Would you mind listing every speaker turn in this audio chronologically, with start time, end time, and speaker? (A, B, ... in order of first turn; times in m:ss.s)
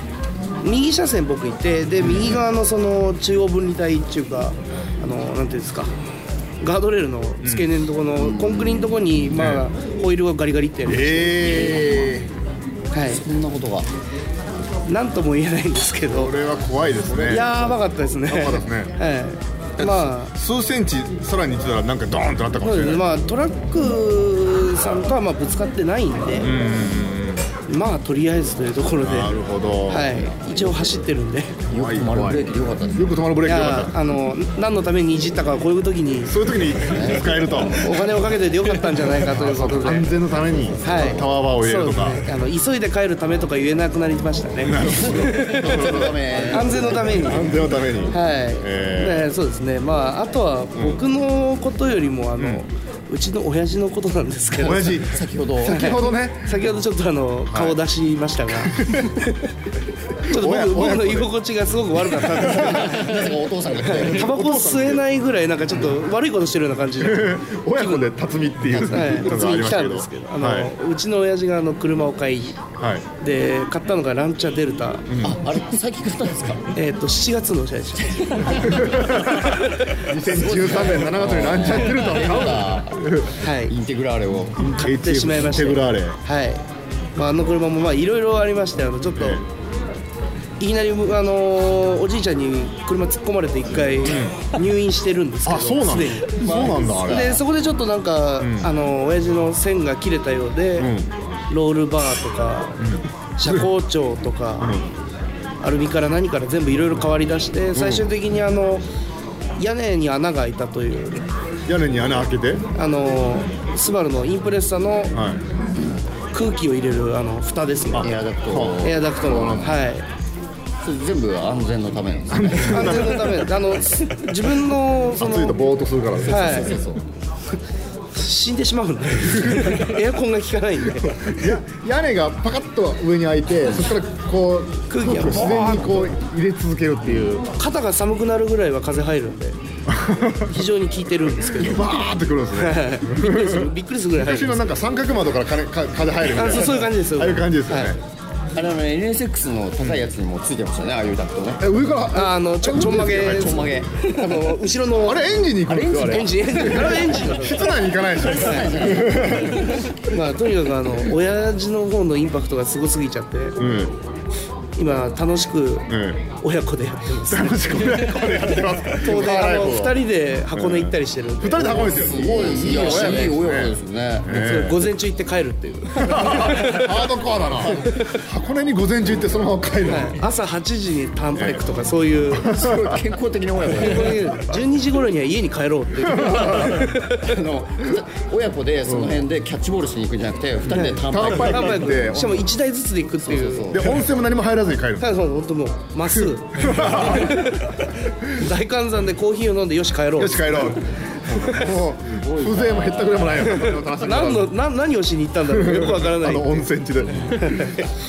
0:00.6-0:05.9 A
0:02.0-0:02.4 B
0:06.6-0:11.5 A
0:07.4-0:07.7 B
0:08.2-0:09.0 C
0:09.4-0:09.6 B
0:10.8-0:12.2 B
0:11.4-0:12.3 C
0:12.9-0:13.2 A
0:13.0-0:13.9 C
0:14.9-0:16.4 A
0:16.1-0:17.7 B
0:17.2-0:17.7 C
0:17.2-0:20.3 A
0:18.3-0:18.9 B
0:19.8-0:23.1 B
0:22.6-0:26.5 A
0:26.4-0:27.5 B
0:27.7-0:29.4 A
0:29.0-0:30.2 B
0:29.9-0:31.6 A
0:31.7-0:33.1 C
0:31.7-0:34.0 B
0:33.4-0:36.4 A
0:36.2-0:38.0 B
0:36.8-0:37.7 C
0:37.7-0:40.1 A
0:39.2-0:42.3 B
0:40.8-0:55.0 A
0:40.9-0:41.2 C
0:44.6-0:49.3 B
0:45.0-0:47.5 C
0:50.8-0:51.0 B
0:52.4-0:52.6 B
0:54.6-0:56.5 B
0:55.1-0:56.0 C
0:55.6-0:59.4 A
0:57.5-0:57.8 B
0:58.6-0:59.1 B
1:00.3-1:01.3 B
1:00.3-1:08.1 A
1:02.0-1:03.1 B
1:02.5-1:04.3 C
1:04.1-1:05.0 B
1:07.0-1:10.7 B
1:08.7-1:12.6 A
1:12.8-1:13.1 B
1:13.2-1:15.1 A
1:15.1-1:15.4 B
1:15.2-1:16.6 C
1:16.8-1:19.8 A
1:18.1-1:19.4 C
1:18.6-1:23.3 B
1:20.1-1:23.1 C
1:23.4-1:23.8 A
1:23.7-1:24.6 C
1:24.6-1:26.2 B
1:24.6-1:26.6 A
1:27.2-1:29.4 A
1:29.1-1:29.4 B
1:30.6-1:40.9 A
1:34.1-1:34.4 B
1:35.4-1:37.4 B
1:36.4-1:37.4 C
1:38.4-1:38.7 B
1:40.8-1:41.1 B
1:41.5-1:42.8 A
1:42.8-1:43.7 B
1:43.4-1:44.8 A
1:44.6-1:44.8 B
1:45.6-1:48.8 A
1:47.8-1:48.1 B
1:49.6-1:51.2 A
1:51.7-1:52.6 B
1:52.8-1:55.2 A
1:55.1-1:55.4 B
1:56.3-1:58.1 A
1:57.9-1:59.8 B
1:58.0-1:59.8 C
1:58.8-2:00.1 A
2:00.8-2:03.3 C
2:02.3-2:03.5 B
2:02.7-2:05.6 A
2:05.2-2:06.9 B
2:06.3-2:06.8 A
2:06.4-2:07.0 C
2:08.1-2:11.5 A
2:09.3-2:09.8 B
2:11.2-2:17.4 B
2:14.9-2:16.1 A
2:15.4-2:15.9 C
2:17.6-2:19.6 A
2:19.9-2:20.5 B
2:20.5-2:22.0 A
2:21.5-2:28.0 B
2:22.6-2:24.6 A
2:26.3-2:28.0 A
2:28.6-2:31.6 C
2:29.8-2:30.1 B
2:31.6-2:33.8 B
2:32.1-2:35.3 A
2:32.7-2:34.6 C
2:35.0-2:39.8 B
2:35.7-2:37.1 C
2:35.9-2:39.0 A
2:38.2-2:39.9 C
2:40.1-2:43.8 A
2:43.6-2:43.9 B
2:44.8-2:48.3 A
2:45.9-2:46.2 B
2:47.3-2:50.0 B
2:48.9-2:53.4 A
2:50.5-2:54.9 B
2:51.6-2:54.4 C
2:54.3-2:57.0 A
2:56.0-3:00.2 B
2:59.9-3:02.5 A
3:01.4-3:01.7 B
3:02.3-3:03.0 B
3:02.5-3:04.4 C
3:03.7-3:07.4 A
3:06.1-3:06.8 B
3:06.4-3:12.4 C
3:08.9-3:09.2 B
3:10.7-3:13.9 A
3:11.0-3:12.4 B
3:13.2-3:14.0 C
3:13.7-3:15.2 B
3:15.0-3:17.7 A
3:16.6-3:17.4 B
3:18.3-3:20.8 A
3:20.2-3:24.5 B
3:21.3-3:21.7 A
3:22.1-3:23.4 C
3:23.5-3:26.6 A
3:25.5-3:27.8 B
3:27.3-3:27.9 A